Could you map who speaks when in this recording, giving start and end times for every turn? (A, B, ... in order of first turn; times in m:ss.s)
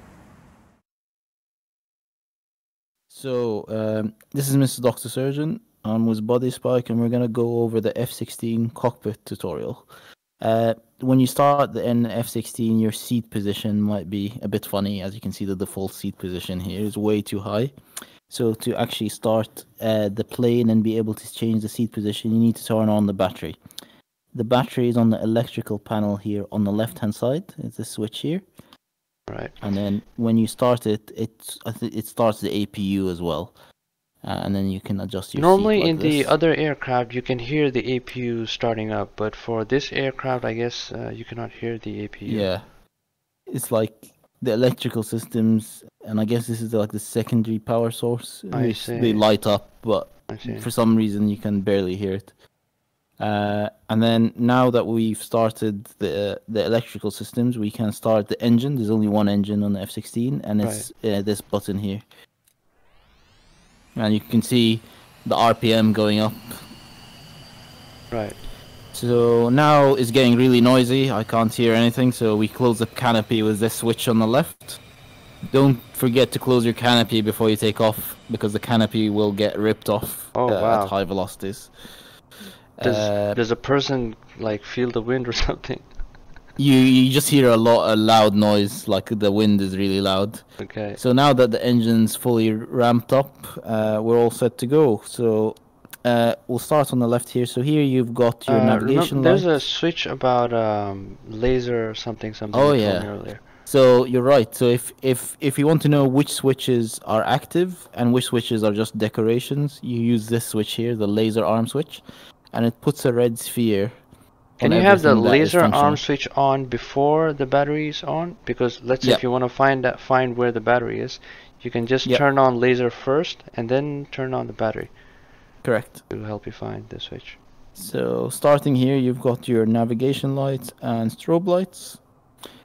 0:03.1-0:09.9 A
0:10.4-0:17.7 A
0:18.3-0:23.6 A
0:24.3-0:28.4 A
0:29.3-0:29.6 B
0:29.6-0:33.5 A
0:34.2-0:36.3 A
0:35.3-0:42.5 B
0:42.3-0:42.7 A
0:43.5-0:52.3 A
0:48.5-0:49.4 B
0:50.3-0:50.7 B
0:53.2-1:02.0 A
1:00.6-1:00.9 B
1:03.9-1:06.6 A
1:08.1-1:08.4 B
1:08.9-1:14.8 A
1:15.5-1:21.7 A
1:20.3-1:20.9 B
1:22.8-1:23.4 A
1:22.8-1:25.9 B
1:26.6-1:39.5 A
1:30.6-1:31.0 B
1:38.5-1:43.4 B
1:42.5-1:53.9 A
1:54.6-1:56.0 A
1:54.6-2:05.0 B
2:05.6-2:06.0 A
2:06.1-2:07.4 B
2:07.8-2:12.0 A